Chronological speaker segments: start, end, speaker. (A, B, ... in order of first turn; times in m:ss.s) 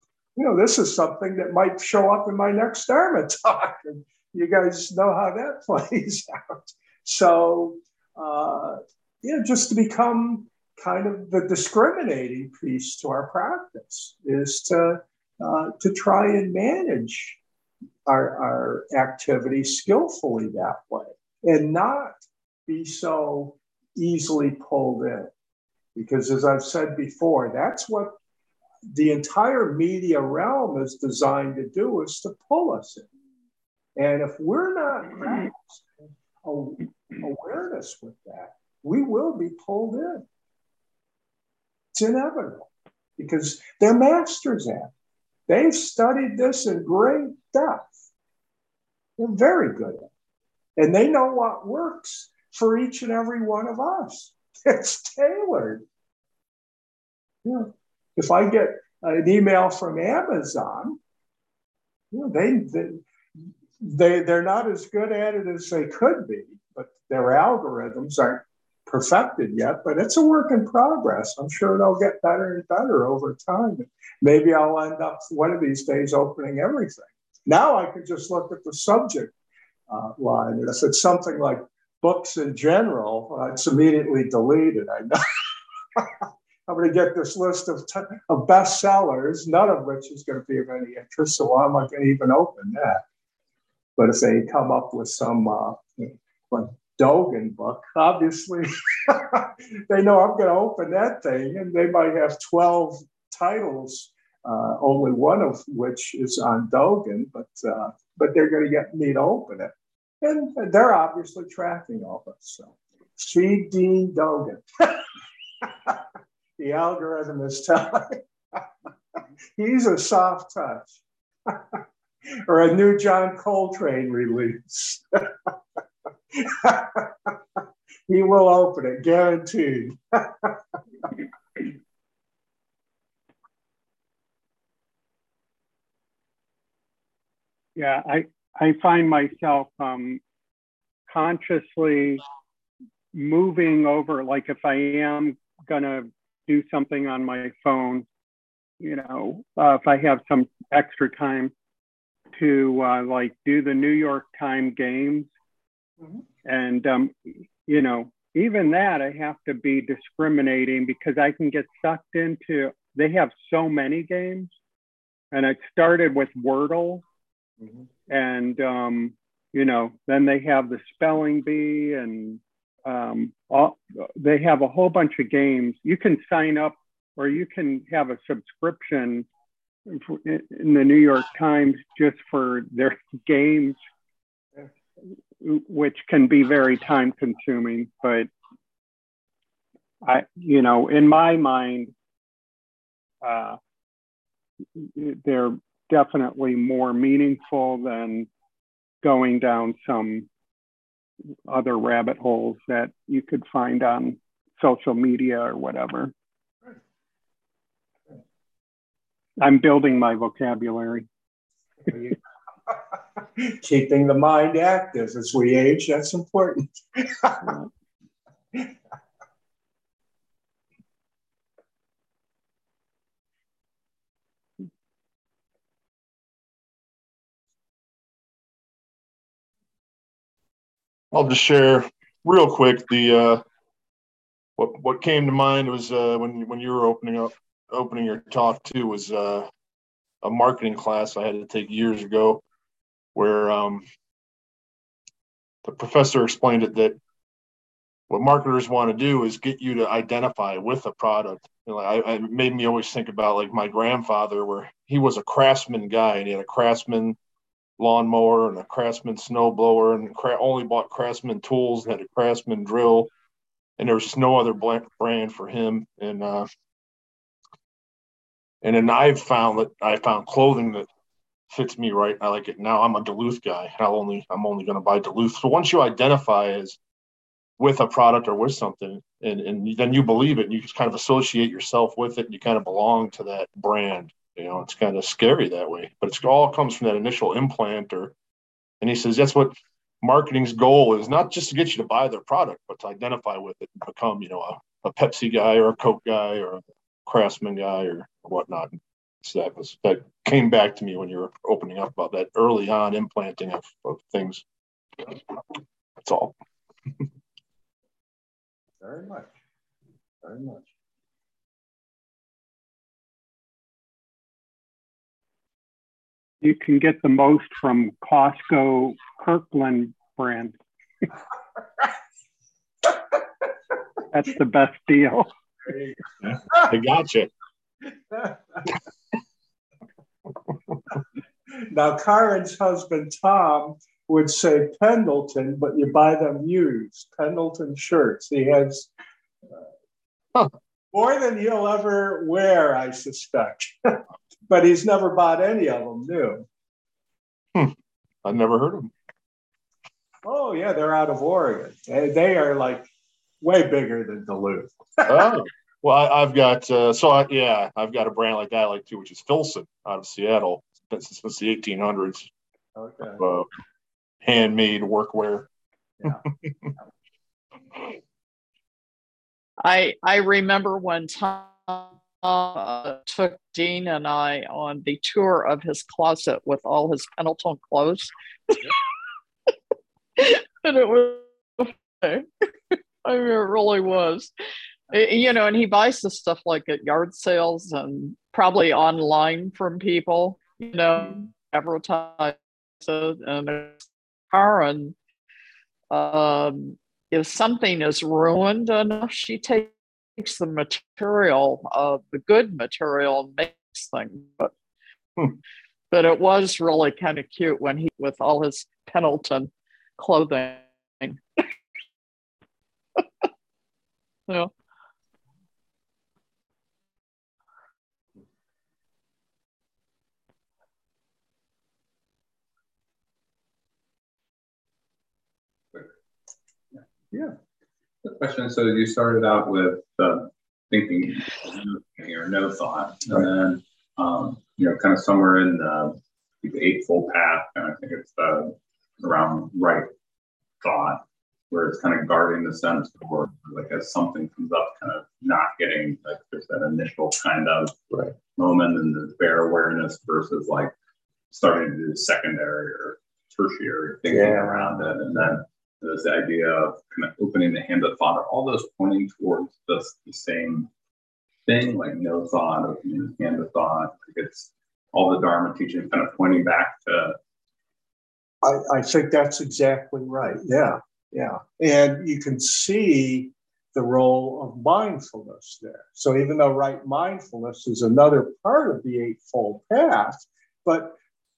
0:00.4-0:17.4 A
0:18.0-0:25.3 A
0:25.9-0:28.2 A
0:28.9-0:33.1 A
0:34.0-0:35.9 A
0:36.4-0:40.2 A
0:42.0-0:44.9 A
0:45.5-0:47.9 A
0:49.2-0:50.1 A
0:50.8-0:55.8 A
0:57.4-1:01.0 A
1:02.1-1:03.0 A
1:03.8-1:19.3 A
1:19.9-1:33.0 A
1:34.0-1:55.1 A
1:55.6-1:56.0 A
1:56.6-1:58.6 A
1:59.6-2:01.8 A
2:02.4-2:05.5 A
2:06.3-2:11.1 A
2:17.8-2:20.2 B
2:21.1-2:22.2 B
2:23.1-2:28.0 B
2:28.8-2:31.5 B
2:32.4-2:35.3 B
2:36.4-2:44.5 B
2:45.3-2:47.0 B
2:48.1-2:59.3 B
2:59.9-3:03.8 B
3:05.4-3:08.3 B
3:10.0-3:11.9 B
3:13.2-3:13.6 B
3:14.8-3:18.3 B
3:19.0-3:20.3 B
3:21.5-3:26.1 B
3:29.4-3:31.1 B
3:31.9-3:32.2 A
3:33.4-3:37.4 A
3:51.1-3:53.4 C
3:54.6-3:59.5 C
4:00.2-4:02.4 C
4:03.1-4:03.8 C
4:05.6-4:07.0 C
4:08.1-4:17.2 C
4:17.8-4:23.1 C
4:23.8-4:26.5 C
4:28.6-4:30.9 C
4:31.5-4:36.8 C
4:37.6-4:48.1 C
4:48.8-5:04.4 C
5:06.0-5:06.4 C
5:08.8-5:09.3 A
5:10.2-5:10.7 A
5:16.4-5:20.6 B
5:24.1-5:25.3 B
5:26.2-5:27.3 C
5:28.1-5:28.6 A
5:31.5-5:38.9 A
5:40.9-5:46.5 A
5:47.5-5:48.9 C
5:50.2-5:52.9 A
5:53.4-5:55.2 A
5:55.1-6:02.3 C
6:02.8-6:03.2 A
6:03.2-6:03.5 C
6:04.2-6:05.5 C
6:09.6-6:18.7 D
6:20.2-6:24.3 D
6:24.9-6:34.9 D
6:35.9-6:44.5 D
6:45.9-6:51.2 D
7:08.0-7:19.9 E
7:20.6-7:30.7 E
7:31.3-7:40.7 E
7:34.1-7:34.9 A
7:41.4-7:47.2 E
7:48.4-8:01.0 A